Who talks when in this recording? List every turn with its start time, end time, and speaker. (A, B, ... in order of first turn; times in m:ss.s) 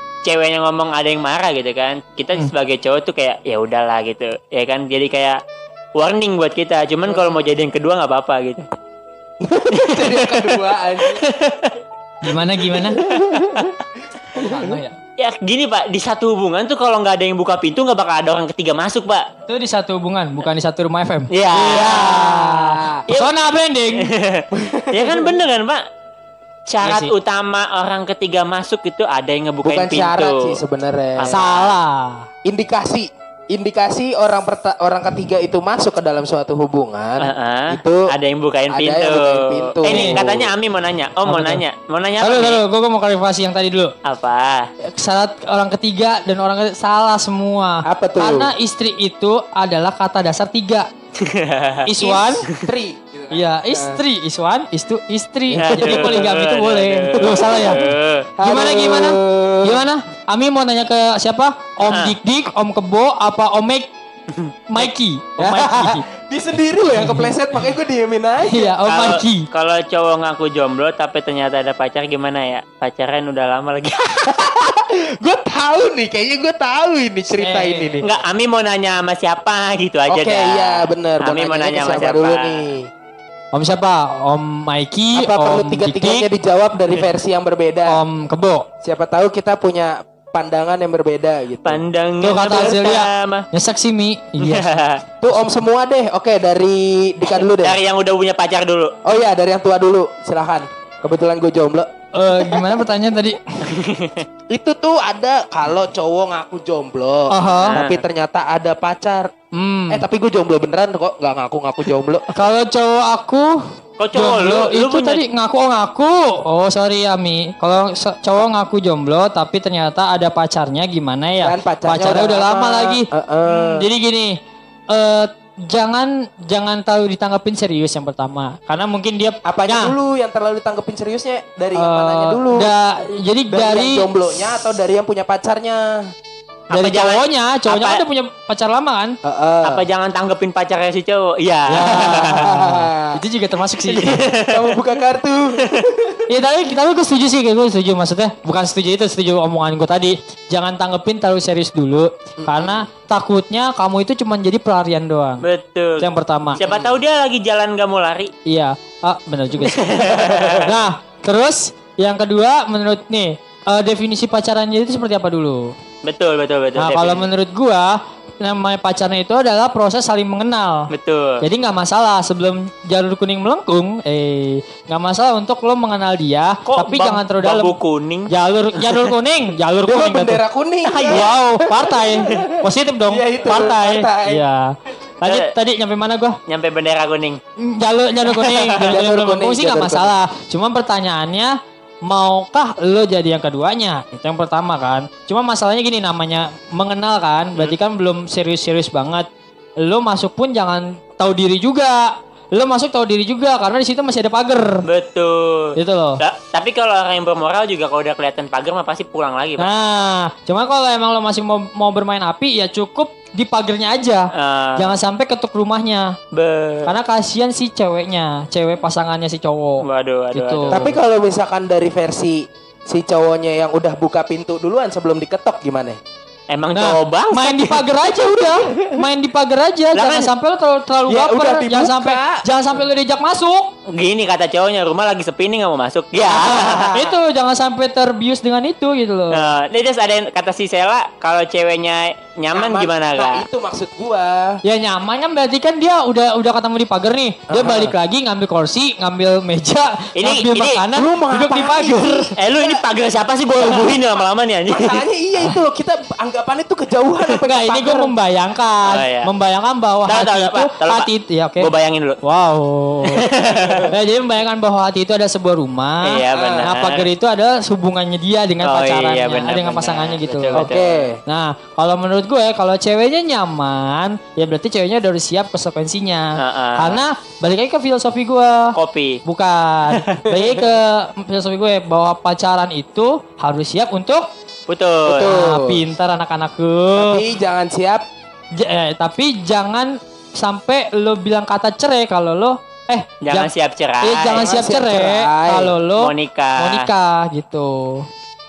0:00.2-0:05.4 A
0:06.0-0:08.6 A
0:07.0-0:07.5 B
0:09.4-0:11.2 B
0:09.7-0:11.8 A
0:12.2-0:13.0 C
0:12.9-0:13.7 B
0:13.0-0:13.7 A
0:14.3-0:14.9 C
0:14.4-0:14.8 B
0:15.2-0:19.3 A
0:19.5-0:24.1 C
0:21.3-0:22.5 A
0:21.7-0:23.0 B
0:23.1-0:23.4 A
0:23.9-0:25.8 A
0:24.5-0:25.4 B
0:26.7-0:30.6 A
0:26.8-0:27.1 C
0:29.6-0:31.4 B
0:31.2-0:31.8 A
0:31.3-0:32.3 C
0:32.4-0:38.1 B
0:37.2-0:42.6 A
0:38.7-0:40.5 B
0:39.8-0:40.2 C
0:41.2-0:41.6 C
0:42.2-0:43.9 C
0:44.0-0:44.7 A
0:44.8-0:50.9 C
0:47.8-0:48.5 B
0:51.2-0:51.9 A
0:51.8-0:52.5 C
0:52.0-0:54.0 B
0:53.3-0:57.8 C
0:55.5-0:56.3 B
0:55.6-0:58.3 A
0:57.2-0:59.8 B
0:58.4-1:03.9 C
1:01.9-1:02.1 A
1:04.3-1:04.9 A
1:04.7-1:06.0 C
1:05.4-1:08.8 B
1:06.9-1:07.3 C
1:08.5-1:09.5 C
1:08.8-1:14.4 A
1:14.2-1:18.1 B
1:17.4-1:18.0 C
1:18.0-1:22.6 A
1:20.1-1:22.9 B
1:23.5-1:26.3 C
1:25.1-1:28.0 B
1:27.9-1:28.7 C
1:28.8-1:31.8 B
1:31.6-1:33.5 A
1:32.2-1:34.6 C
1:34.4-1:35.0 A
1:35.2-1:37.8 B
1:37.3-1:38.9 A
1:39.0-1:42.8 B
1:42.1-1:43.6 C
1:43.6-1:44.2 A
1:44.5-1:49.3 B
1:47.3-1:47.8 C
1:47.6-1:48.0 A
1:49.5-1:50.0 C
1:49.9-1:52.3 B
1:52.3-1:53.6 C
1:54.0-1:55.2 A
1:54.1-2:04.4 C
2:01.4-2:03.9 B
2:04.9-2:09.9 C
2:09.4-2:12.7 B
2:11.7-2:14.1 C
2:13.5-2:16.1 B
2:16.7-2:18.0 A
2:16.7-2:19.2 C
2:19.2-2:19.8 B
2:19.6-2:22.5 A
2:21.7-2:24.2 C
2:21.8-2:23.2 B
2:23.8-2:24.8 A
2:24.4-2:26.2 B
2:25.6-2:25.8 A
2:26.3-2:35.4 C
2:32.4-2:32.8 B
2:35.4-2:38.3 A
2:36.0-2:36.6 C
2:36.6-2:37.0 B
2:38.4-2:45.7 C
2:39.6-2:40.7 A
2:40.1-2:40.6 B
2:46.0-2:47.3 A
2:46.8-2:57.7 C
2:50.9-2:51.4 A
2:56.6-2:59.1 A
2:58.3-3:00.4 C
2:59.8-3:04.4 B
3:00.9-3:01.3 A
3:01.1-3:06.4 C
3:05.2-3:05.5 A
3:06.5-3:07.4 A
3:07.6-3:19.3 C
3:08.3-3:08.9 A
3:08.8-3:10.1 B
3:19.8-3:24.8 C
3:24.8-3:29.7 A
3:25.8-3:26.2 C
3:29.6-3:36.2 C
3:34.3-3:35.0 A
3:36.3-3:36.9 A
3:36.8-3:40.9 C
3:39.8-3:40.9 A
3:40.7-3:46.0 B
3:46.5-3:47.9 A
3:46.7-3:53.7 C
3:49.9-3:50.3 A
3:51.1-3:52.4 B
3:53.9-3:57.0 A
3:56.2-3:59.5 C
3:56.5-3:57.1 B
3:59.3-4:03.4 A
4:02.5-4:04.6 B
4:04.6-4:12.3 C
4:07.5-4:07.9 B
4:10.2-4:10.8 A
4:10.9-4:12.8 B
4:12.4-4:15.0 A
4:13.6-4:14.0 B
4:14.7-4:18.1 B
4:17.4-4:21.7 C
4:18.8-4:19.3 A
4:20.1-4:21.1 A
4:21.6-4:22.2 A
4:22.2-4:23.3 C
4:23.0-4:23.9 A
4:23.6-4:23.9 B
4:23.9-4:30.7 C
4:26.0-4:27.1 A
4:26.3-4:26.7 B
4:28.6-4:31.0 A
4:30.5-4:31.2 B
4:31.2-4:44.3 C
4:36.4-4:37.0 A
4:38.7-4:39.2 A
4:39.9-4:40.2 A
4:44.7-4:45.3 A
4:45.0-4:45.9 B
4:45.2-4:47.2 C
4:47.0-4:48.0 B
4:48.5-4:53.5 C
4:53.2-4:54.5 A
4:54.0-4:58.0 C
4:54.3-4:55.8 B
4:56.0-4:56.8 A